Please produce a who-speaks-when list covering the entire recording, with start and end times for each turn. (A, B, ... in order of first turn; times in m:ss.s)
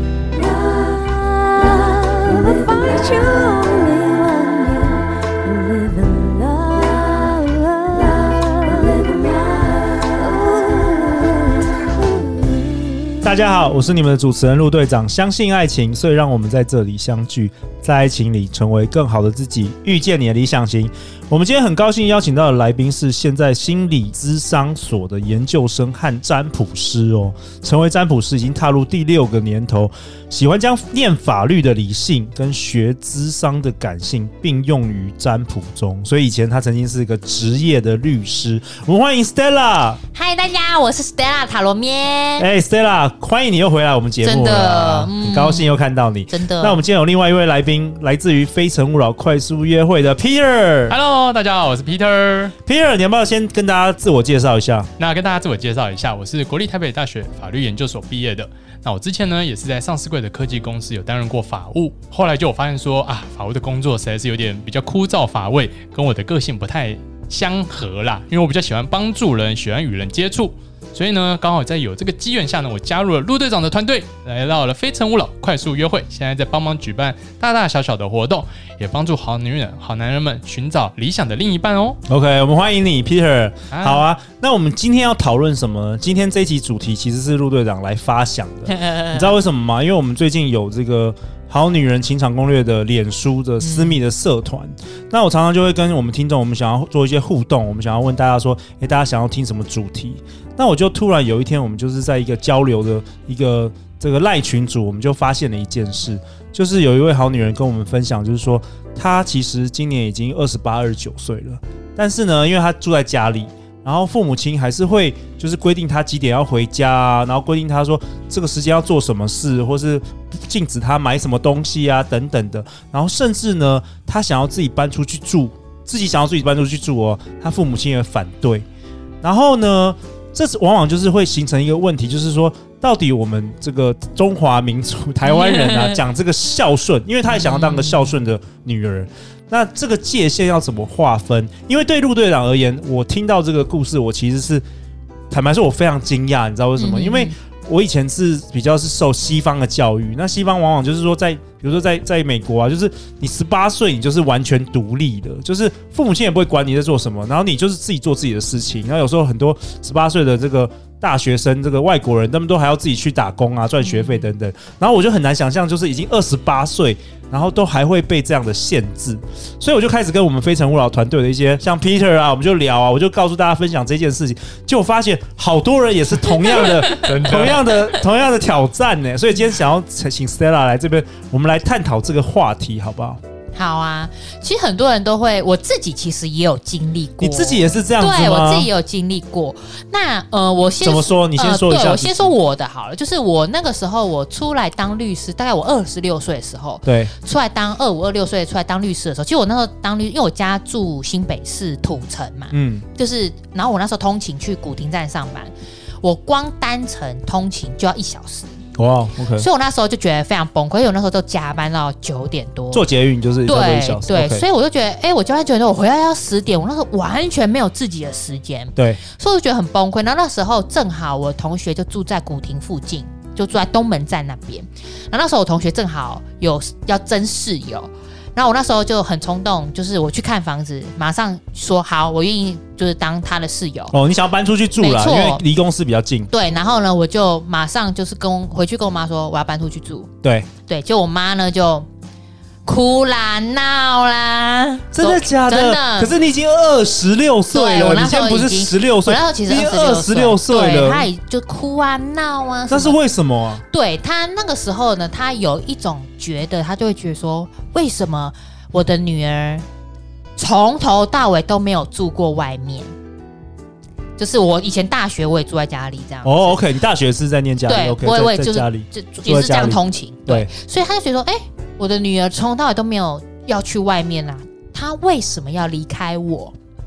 0:00.5-0:11.5 A
0:12.4-0:13.0 A
0:13.2-0:40.0 B
0:40.1-0:42.5 C
0:42.4-0:51.0 B
0:44.2-0:46.8 C
0:50.9-0:52.5 D
0:52.6-0:54.9 B
0:55.0-1:22.0 D
1:22.1-2:08.6 B
1:23.7-1:24.0 D
1:28.8-1:29.3 C
1:33.6-1:34.0 C
2:09.2-2:24.6 B
2:15.2-2:16.0 C
2:17.2-2:18.2 C
2:25.3-3:03.2 B
2:26.8-2:27.3 C
2:43.8-2:44.3 C
2:56.4-2:57.0 C
2:56.9-2:57.7 D
3:03.5-3:25.5 C
3:07.2-3:08.7 B
3:10.8-3:12.3 B
3:16.8-3:17.1 B
3:22.5-3:22.8 B
3:26.0-3:28.6 C
3:28.7-3:29.5 B
3:29.3-3:32.8 C
3:32.7-3:34.4 B
3:33.4-3:53.9 C
3:38.8-3:39.0 B
3:53.9-3:56.3 B
3:54.8-3:55.4 C
3:56.3-4:00.1 C
4:00.2-4:00.5 B
4:00.7-4:01.9 C
4:02.6-4:06.1 C
4:04.9-4:11.1 B
4:07.5-4:13.0 C
4:12.7-4:13.6 B
4:13.7-4:19.6 C
4:20.4-4:22.9 C
4:24.2-4:26.6 C
4:26.2-4:30.5 B
4:27.7-4:36.5 C